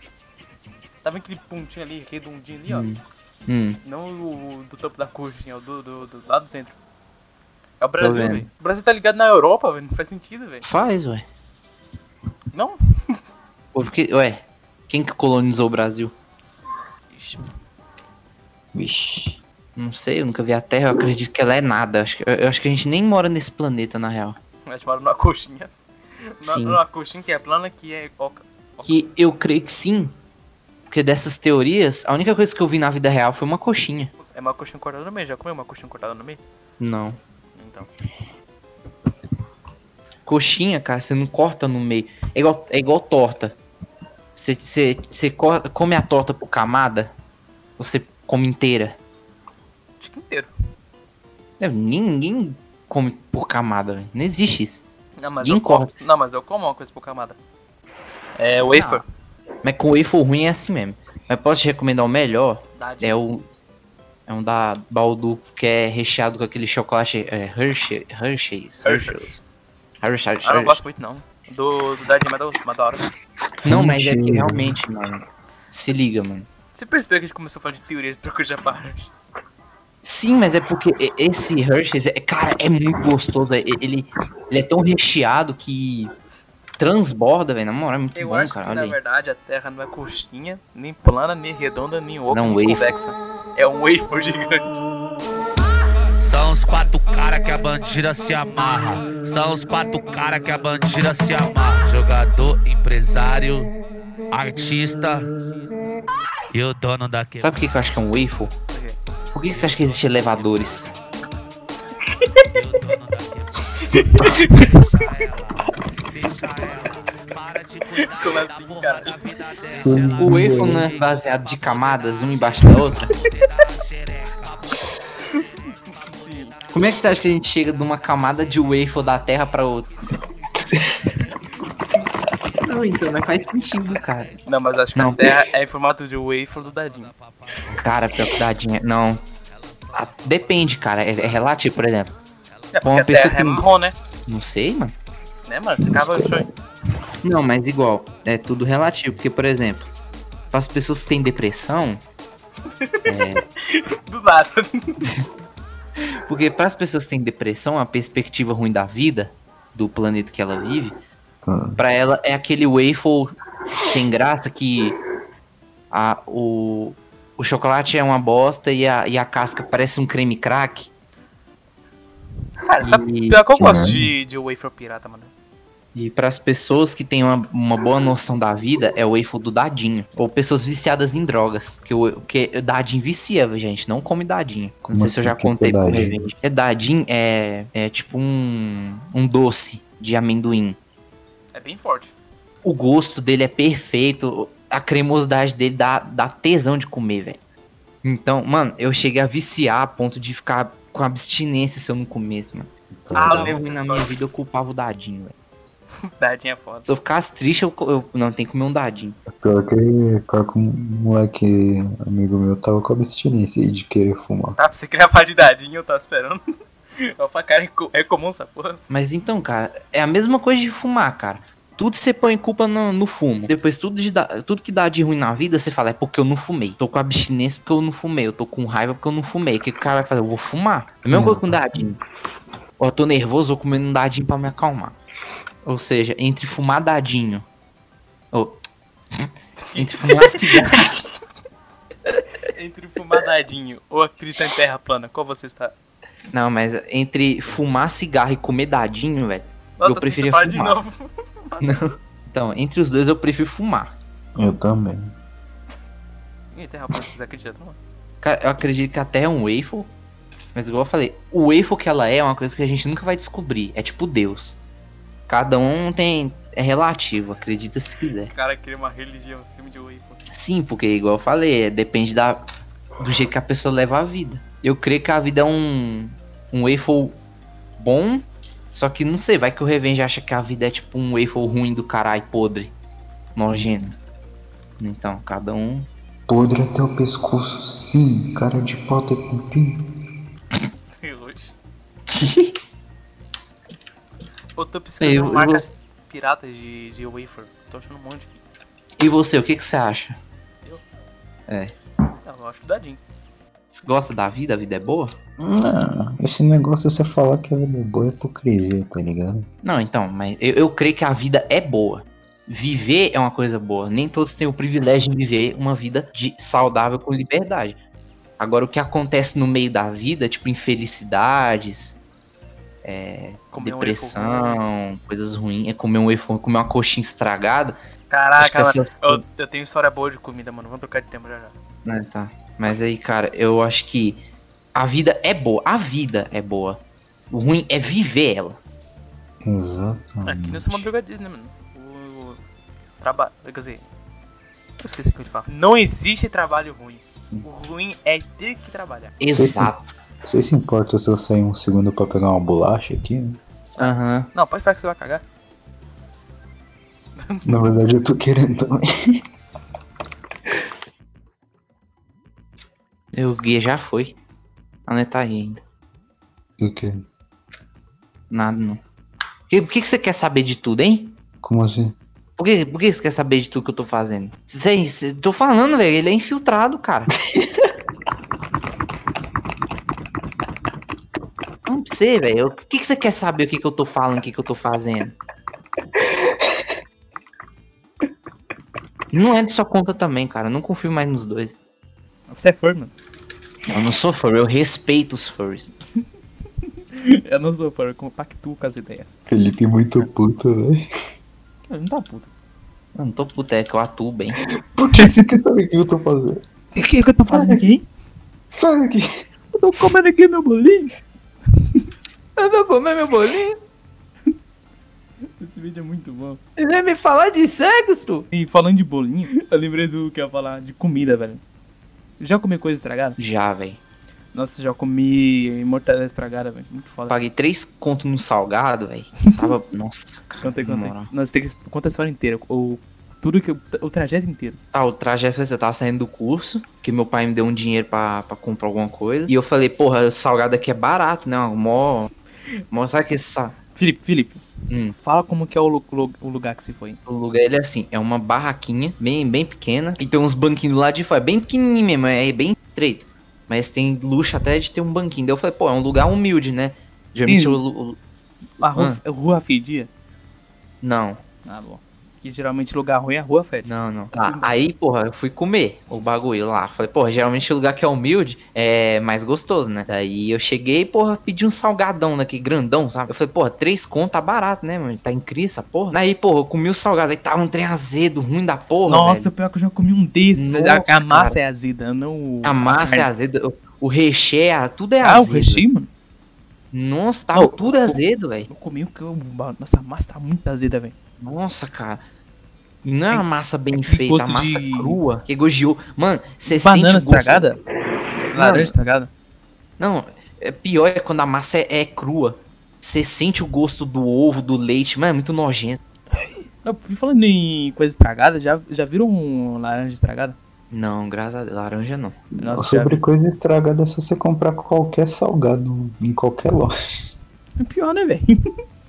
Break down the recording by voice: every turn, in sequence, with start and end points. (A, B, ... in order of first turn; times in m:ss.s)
0:01.0-0:02.9 A
0:02.7-0:03.8 B
0:03.8-0:06.8 A
0:07.8-0:10.6 A
0:08.0-0:08.4 B
0:10.6-0:11.2 B
0:12.5-0:13.2 A
0:13.7-0:16.1 B
0:17.1-0:17.5 A
0:18.7-0:19.4 C
0:19.8-0:24.4 B
0:24.7-0:25.7 A
0:26.4-0:29.0 A
0:26.4-0:26.8 B
0:28.8-0:30.1 B
0:30.9-0:34.1 B
0:34.2-0:36.4 A
0:36.8-0:37.2 B
0:37.6-0:37.9 A
0:40.2-0:43.6 B
0:44.4-0:47.1 B
0:47.8-0:49.0 B
0:50.0-0:50.5 A
0:51.6-0:54.8 B
0:55.2-0:57.4 A
0:55.4-0:55.9 B
0:58.4-0:59.0 A
0:58.7-0:59.0 B
0:59.6-1:03.5 B
1:02.8-1:03.2 A
1:04.3-1:09.4 B
1:08.8-1:09.4 A
1:10.0-1:10.8 B
1:10.4-1:13.0 A
1:13.6-1:16.5 B
1:13.7-1:14.8 C
1:16.7-1:19.3 A
1:20.0-1:26.1 B
1:26.8-1:29.0 B
1:28.1-1:34.8 A
1:32.3-1:32.9 B
1:36.2-1:43.7 D
1:44.3-1:45.8 D
1:46.5-1:47.7 D
1:47.4-1:48.5 B
1:48.7-1:49.0 A
1:49.3-1:50.9 B
1:49.5-1:50.9 D
1:52.5-2:04.8 D
1:53.8-1:55.3 A
1:58.0-1:59.4 A
1:59.8-2:00.9 C
2:00.2-2:03.1 B
2:03.2-2:03.5 A
2:06.1-2:06.5 A
2:06.6-2:06.9 D
2:06.7-2:09.9 B
2:10.6-2:11.1 C
2:12.6-2:14.3 B
2:14.5-2:17.1 A
2:14.9-2:15.4 B
2:16.6-2:17.7 D
2:17.7-2:19.2 B
2:19.5-2:20.6 D
2:19.9-2:22.1 B
2:22.7-2:23.9 A
2:22.8-2:23.6 B
2:24.3-2:25.0 B
2:25.5-2:26.5 A
2:25.8-2:26.5 C
2:27.2-2:29.9 B
2:30.5-2:32.0 B
2:32.8-2:35.1 A
2:33.0-2:33.4 B
2:36.0-2:41.0 B
2:41.4-2:41.8 C
2:41.8-2:45.0 B
2:45.9-2:50.9 B
2:52.6-2:55.3 A
2:52.8-2:53.4 B
2:53.5-2:54.1 C
2:55.9-3:10.8 B
3:04.9-3:06.3 C
3:11.5-3:12.2 A
3:12.6-3:17.4 B
3:18.0-3:25.4 B
3:22.9-3:23.6 C
3:23.1-3:24.1 A
3:26.1-3:26.9 A
3:26.8-3:29.2 B
3:29.3-3:34.6 C
3:34.6-3:36.4 A
3:37.0-3:38.8 A
3:38.9-3:52.0 B
3:51.1-3:51.8 C
3:52.8-3:55.0 B
3:55.6-3:57.4 B
3:58.3-3:58.6 B
3:59.1-4:00.9 B
3:59.6-4:00.9 A
4:02.5-4:05.7 A
4:06.3-4:10.8 B
4:09.8-4:11.8 A
4:11.6-4:13.9 B
4:14.4-4:15.1 C
4:16.5-4:17.8 A
4:18.2-4:19.9 B
4:20.5-4:24.6 B
4:25.3-4:28.3 B
4:28.3-4:30.2 A
4:30.3-4:32.4 B
4:33.0-4:37.2 B
4:37.8-4:42.7 B
4:43.4-4:44.0 B
4:44.8-4:45.9 B
4:46.3-4:49.8 C
4:51.0-4:51.6 A
4:52.1-4:52.5 B
4:54.6-4:58.4 A
4:55.0-4:55.7 B
4:59.0-5:00.2 B
5:01.5-5:01.7 B
5:02.2-5:03.0 A
5:03.7-5:05.1 B
5:05.4-5:09.5 C
5:09.6-5:17.8 B
5:18.4-5:22.0 B
5:22.8-5:27.8 B
5:23.5-5:24.6 A
5:28.1-5:31.5 A
5:28.4-5:29.2 B
5:31.9-5:34.2 B
5:34.8-5:38.6 B
5:39.4-5:40.8 C
5:40.2-5:42.4 A
5:43.0-5:43.9 A
5:44.8-5:49.2 A
5:49.2-5:49.9 B
5:49.3-5:53.4 C
5:53.8-5:54.3 B
5:53.8-5:55.2 A
5:57.2-5:57.7 A
5:57.4-5:59.2 C
6:03.1-6:04.2 B
6:04.9-6:05.6 B
6:06.6-6:07.0 C
6:08.3-6:08.8 B
6:09.5-6:11.1 B
6:11.4-6:11.9 C
6:12.4-6:17.1 B
6:21.6-6:25.1 B
6:26.0-6:26.4 C
6:29.1-6:31.6 B
6:32.3-6:32.9 A
6:33.7-6:35.7 B
6:36.9-6:39.2 A
6:39.3-6:40.9 C
6:41.7-6:42.3 A
6:43.0-6:44.4 B
6:44.4-6:46.4 C
6:44.9-6:45.3 A
6:46.7-6:47.9 A
6:47.3-6:47.6 C
6:48.5-6:49.2 C
6:49.5-6:50.9 A
6:51.6-6:51.8 A
6:52.4-6:53.6 B
6:55.4-6:56.4 A
6:56.6-6:58.2 B
6:58.3-7:01.4 A
7:02.2-7:03.2 A
7:03.2-7:03.8 B
7:04.3-7:07.2 A
7:07.1-7:11.1 B
7:09.3-7:09.5 A
7:10.4-7:14.6 A
7:14.7-7:22.1 B
7:22.7-7:23.6 B
7:23.8-7:24.4 A
7:24.7-7:24.9 B
7:25.0-7:27.0 A
7:27.1-7:38.0 B
7:37.3-7:37.6 A
7:38.6-7:39.9 A
7:40.8-7:41.2 B
7:41.4-7:44.6 A
7:43.6-7:59.3 B
7:58.9-8:03.1 A
8:00.4-8:01.4 B
8:02.4-8:05.6 B
8:05.0-8:05.9 A
8:06.7-8:08.5 B
8:07.3-8:10.9 A
8:11.2-8:12.0 B
8:12.8-8:17.5 B
8:13.8-8:15.0 A
8:16.4-8:17.6 A
8:18.3-8:19.1 A
8:18.4-8:18.7 B
8:19.8-8:25.8 B
8:26.1-8:30.4 A
8:30.7-8:32.2 B
8:32.4-8:36.7 C
8:32.4-8:33.0 A
8:37.6-8:38.4 A